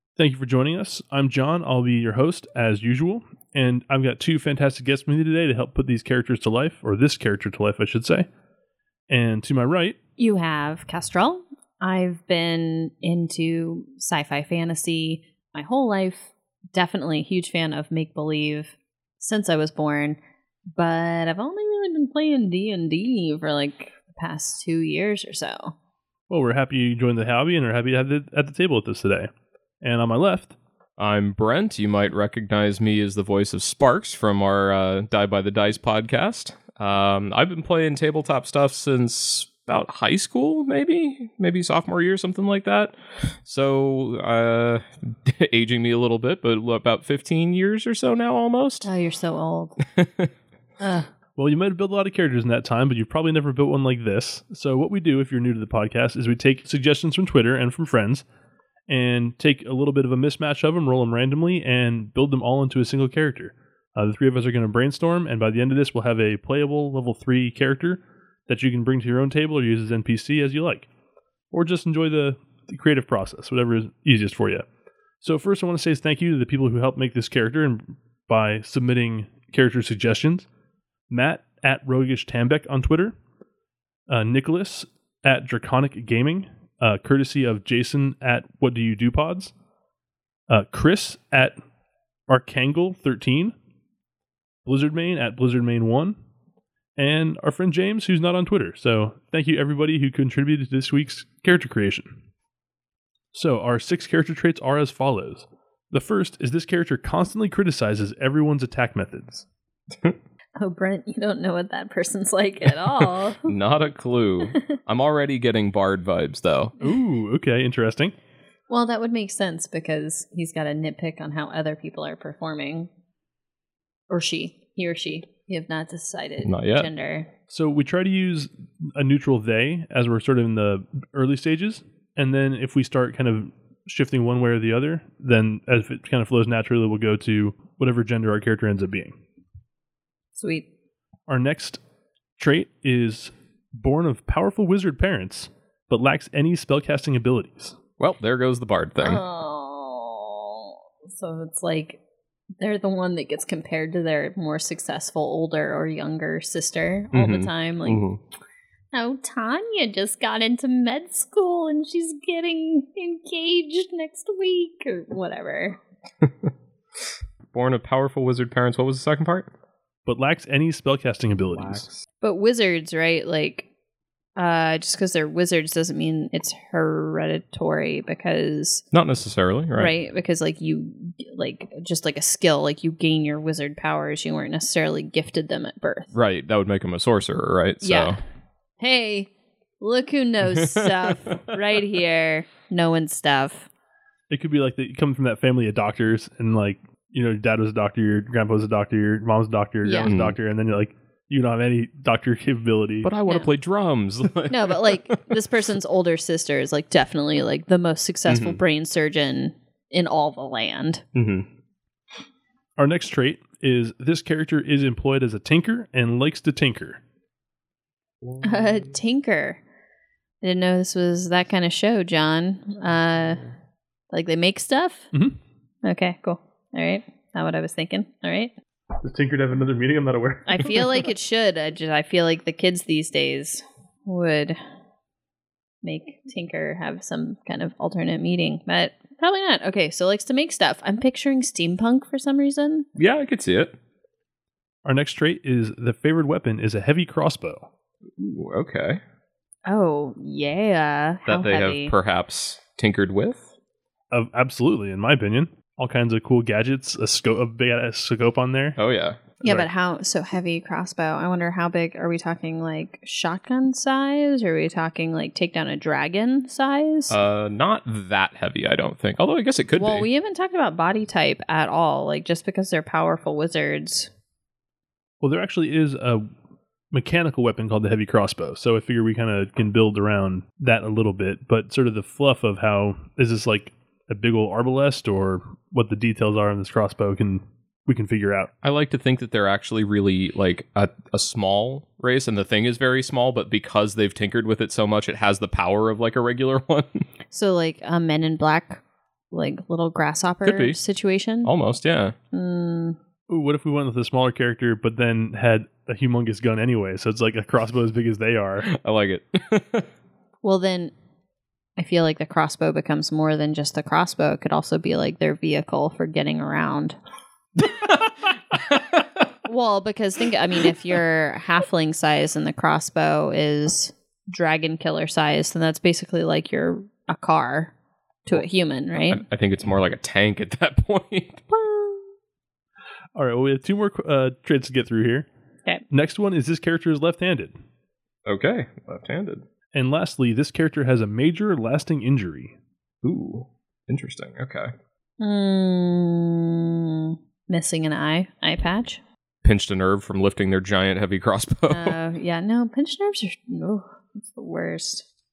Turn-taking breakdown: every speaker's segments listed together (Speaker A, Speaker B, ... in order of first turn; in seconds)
Speaker A: 0.2-8.3, 9.1-10.0, 26.3-29.3, 29.8-30.6, 51.4-58.2, 58.9-70.9, 71.5-74.7, 75.2-80.5, 81.1-83.1, 84.1-89.5, 90.5-91.5, 92.3-93.5, 94.7-96.2, 97.0-102.1, 103.3-109.5, 116.8-118.1, 127.5-139.2, 141.3-141.8, 142.4-147.8, 170.1-171.8, 194.3-203.1, 212.8-217.0, 229.0-230.6, 244.8-247.7, 254.1-258.8, 275.2-276.2, 276.9-288.5, 303.3-308.7, 333.1-335.3, 335.9-337.5, 339.7-342.5
Speaker B: 10.2-20.2, 20.8-25.7, 48.8-49.8, 50.8-51.1, 110.6-113.5, 118.7-122.9, 124.1-127.3, 140.4-140.7, 149.0-152.0, 152.6-158.0, 158.9-165.8, 172.2-173.7, 174.4-178.8, 179.8-186.1, 187.8-188.2, 188.8-193.7, 199.8-200.1, 204.5-211.1, 218.4-219.6, 220.4-223.4, 224.1-225.1, 225.8-228.5, 230.5-234.6, 235.8-242.9, 249.7-251.9, 259.4-267.2, 269.8-274.1, 297.3-301.5, 302.3-303.0, 310.4-310.9, 311.8-317.0, 319.4-327.7, 328.3-329.2, 345.2-349.0, 351.7-355.1
Speaker C: 31.0-48.9, 50.0-50.3, 113.4-116.7, 126.4-126.9, 148.0-149.2, 157.1-158.2, 166.2-166.5, 167.5-169.5, 171.6-171.9, 178.9-179.9, 186.1-188.2, 190.6-191.4, 200.0-200.4, 203.0-205.2, 208.3-208.6, 211.2-211.5, 218.2-218.8, 243.0-243.8, 248.2-249.0, 251.3-253.5, 258.8-259.7, 267.1-270.1, 288.6-297.1, 300.4-300.8, 301.4-302.1, 308.6-309.9, 317.6-319.1, 329.1-331.8, 338.3-339.4, 343.0-344.7, 349.4-352.0